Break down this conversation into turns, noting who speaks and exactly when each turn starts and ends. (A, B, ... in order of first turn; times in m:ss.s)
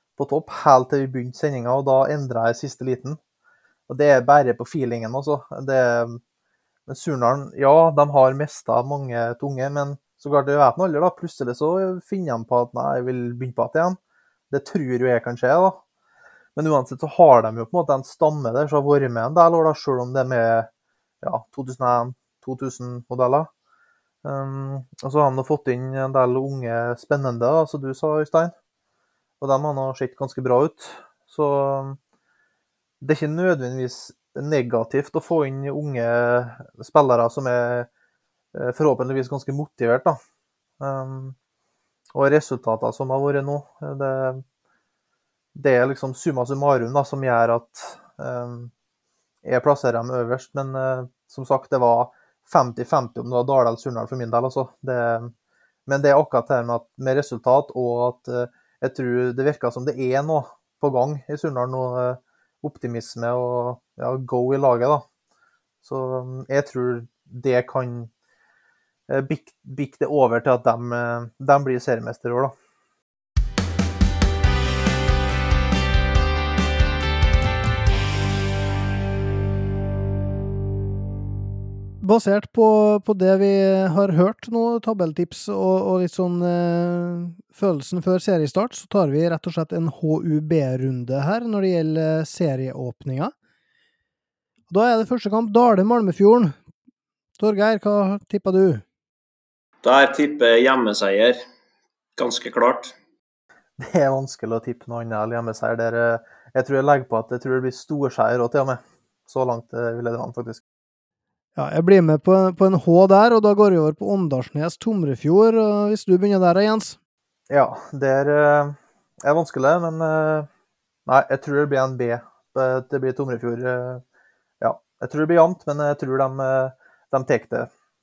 0:00.2-0:03.2 A
0:03.9-0:06.2 A
0:06.9-0:14.0 A
0:14.5-0:15.8 A
0:16.6-0:20.7 A
0:21.2-0:23.5 A
0:24.2-0:28.5 A
0:29.4-0:32.0 A
0:33.0-0:37.9 A
0:38.5-0:40.2 A
0:40.8-0:41.4 A
0:42.1-0:44.4 A
0:45.5-0:48.7 A
0:49.4-0:55.3 A
0:55.9-1:05.0 A
1:05.8-1:08.1 A
1:09.1-1:12.5 A
1:22.0-1:33.3 B
1:34.7-1:36.6 B
1:37.4-1:38.8 B
1:39.8-1:41.4 C
1:42.2-1:42.9 C
1:43.8-1:50.6 A
1:51.6-1:57.0 B
1:57.5-2:00.5 A
2:01.0-2:04.0 A
2:04.6-2:07.7 A